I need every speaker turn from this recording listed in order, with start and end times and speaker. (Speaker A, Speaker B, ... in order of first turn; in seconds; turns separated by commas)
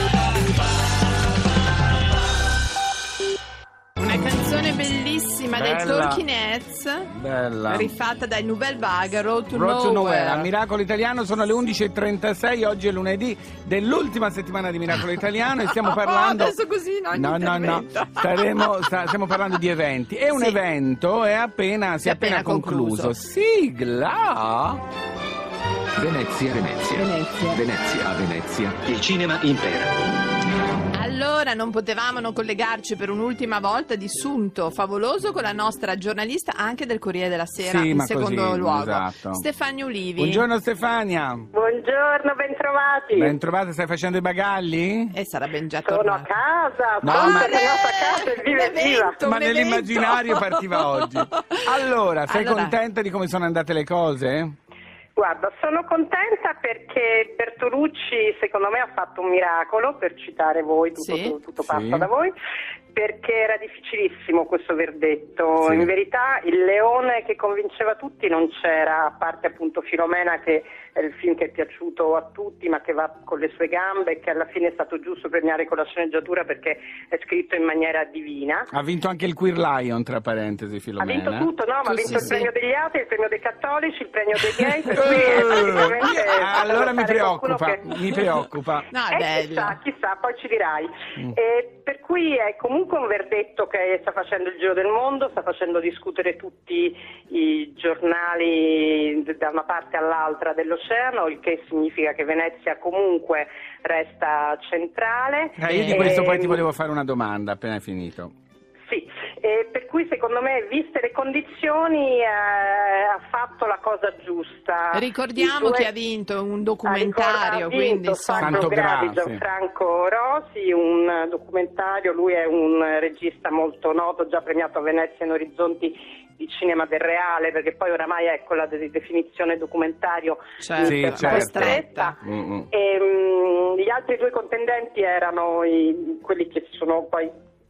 Speaker A: 4.0-7.1, Speaker B: 5.5-6.2, Speaker B: 7.1-7.9, Speaker A: 7.7-10.5, Speaker B: 9.5-16.6, Speaker A: 15.6-18.8, Speaker B: 17.1-24.8, Speaker A: 20.3-20.6, Speaker A: 22.0-23.1, Speaker C: 25.9-29.9, Speaker A: 26.9-27.6, Speaker A: 30.9-40.5, Speaker B: 37.6-39.4, Speaker B: 40.2-41.5, Speaker D: 41.5-43.4, Speaker B: 43.1-45.1, Speaker A: 45.1-46.3, Speaker D: 45.8-49.2, Speaker B: 47.0-47.6, Speaker A: 47.0-51.5, Speaker B: 49.2-54.5, Speaker A: 52.2-52.7, Speaker D: 55.1-62.3, Speaker A: 61.0-61.3, Speaker B: 61.6-62.1, Speaker D: 62.9-78.7, Speaker B: 65.6-65.9, Speaker B: 78.7-81.5, Speaker D: 81.0-88.2, Speaker A: 81.8-82.5, Speaker B: 82.0-82.3, Speaker B: 84.9-88.9, Speaker A: 88.9-89.8, Speaker D: 89.1-106.7, Speaker B: 105.6-108.3, Speaker A: 105.6-106.2, Speaker D: 108.9-115.9, Speaker A: 114.9-118.7, Speaker D: 116.8-137.3, Speaker B: 118.4-119.4, Speaker A: 130.6-132.1, Speaker B: 130.8-132.7